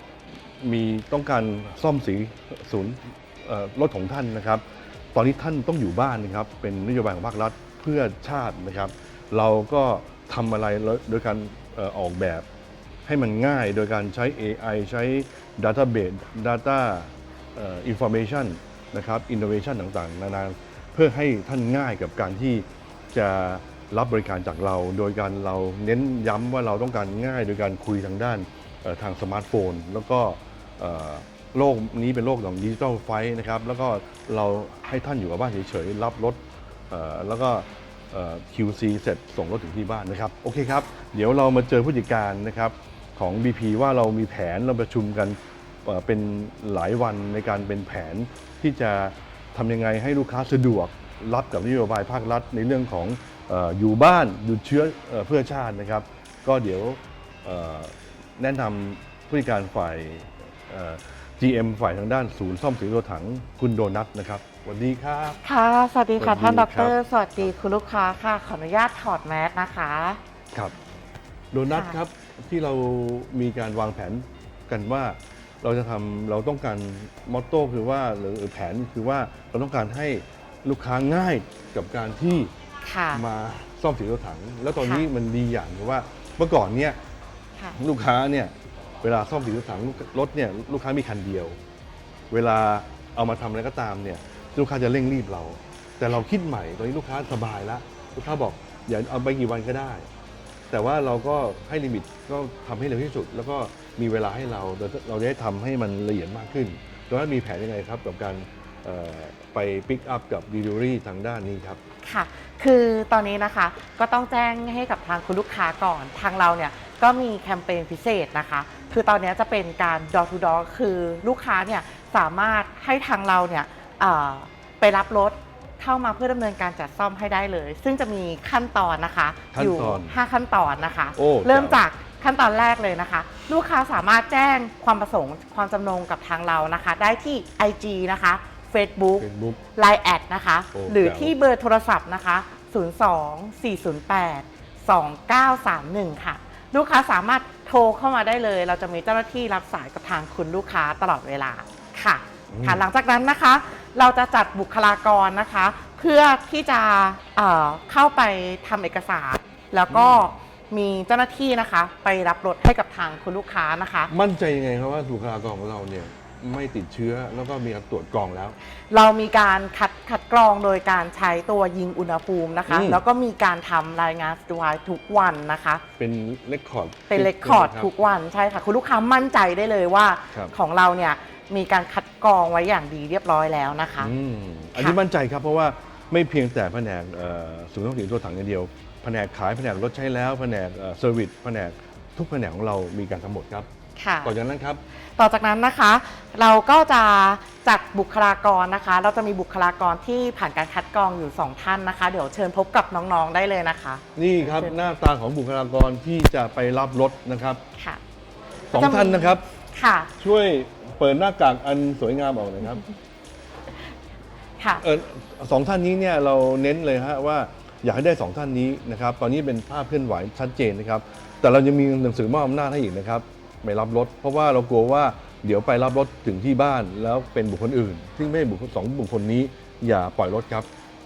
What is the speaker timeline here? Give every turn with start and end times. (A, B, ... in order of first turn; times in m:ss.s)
0:00.6-0:04.6 A
0:05.1-0:12.4 A
0:13.0-1:05.4 A
1:05.4-1:10.2 B
1:06.2-1:07.5 A
1:11.5-1:22.5 A
1:22.8-1:23.2 B
1:23.1-1:27.0 A
1:24.8-1:25.1 B
1:27.7-1:31.6 A
1:32.3-1:40.0 A
1:40.7-1:51.8 A
1:52.0-2:44.1 B
2:09.5-2:10.2 A
2:11.2-2:11.8 A
2:19.2-2:19.6 A
2:20.7-2:21.3 A
2:32.5-2:32.8 A
2:39.9-2:40.2 A
2:44.1-2:48.6 A
2:48.9-2:55.8 B
2:52.7-2:53.0 A
2:56.0-2:57.9 A
2:57.1-3:04.1 B
3:04.0-3:13.7 A
3:14.0-3:14.3 B
3:14.2-3:14.8 A
3:15.2-3:24.7 B
3:24.2-3:27.6 A
3:27.8-3:28.0 B
3:28.7-3:29.4 A
3:28.7-3:30.1 B
3:30.2-3:32.9 A
3:34.8-3:50.7 A